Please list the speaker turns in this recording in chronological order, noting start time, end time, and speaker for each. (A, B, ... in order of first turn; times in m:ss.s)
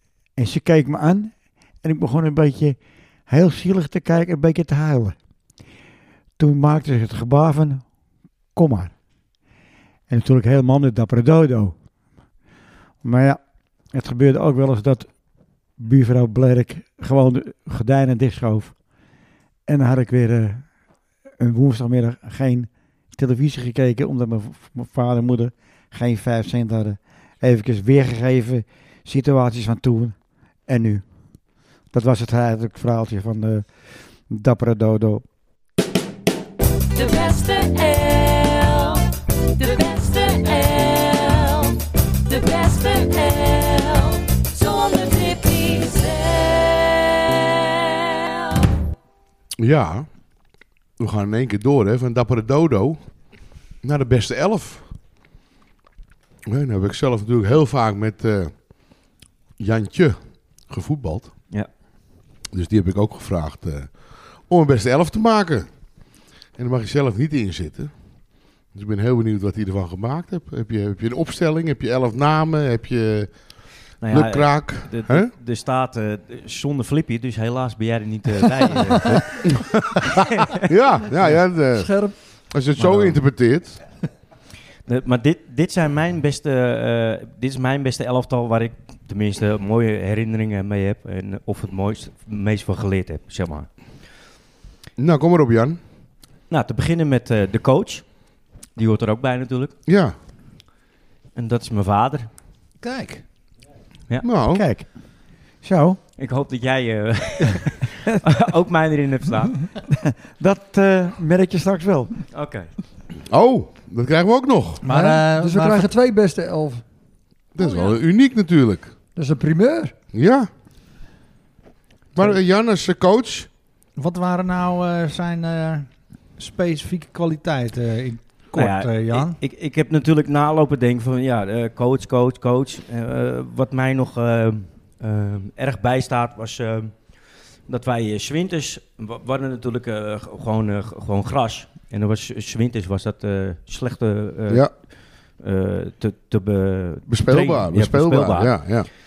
0:00.4-0:05.2 A
0:06.4-0:07.9 A
0:08.5-0:08.9 A
0:10.1-0:11.8 A
0:13.0-0:15.2 A
0:15.8-0:18.8 A
0:19.7-0:20.8 A
0:21.4-0:31.1 A
0:31.9-0:35.2 A
0:36.9-0:48.6 B
0:49.6-0:50.1 C
0:51.0-0:54.9 C
0:56.4-0:59.0 C
0:59.6-1:01.3 C
1:02.5-1:05.7 C
1:06.5-1:07.9 C
1:08.7-1:13.4 C
1:13.9-1:15.3 C
1:14.0-1:19.3 D
1:20.4-1:20.6 D
1:20.6-1:23.8 C
1:21.6-1:22.1 E
1:22.8-1:23.2 D
1:24.8-1:33.7 D
1:35.0-1:35.8 C
1:36.5-1:38.2 D
1:38.7-1:39.7 D
1:39.9-1:40.1 C
1:41.3-1:42.3 D
1:42.8-1:43.2 F
1:44.2-1:44.6 C
1:44.5-1:44.9 A
1:45.6-1:46.0 A
1:46.2-1:49.8 D
1:50.0-1:52.2 A
1:52.3-1:52.7 D
1:53.2-1:54.8 C
1:54.8-1:55.9 F
1:54.9-1:56.8 E
1:57.5-1:58.9 C
1:57.6-1:57.9 F
1:59.1-1:59.9 E
2:00.1-2:00.5 C
2:02.1-2:03.5 C
2:04.0-2:09.4 F
2:08.5-2:24.7 D
2:25.4-2:28.7 D
2:27.1-2:28.9 C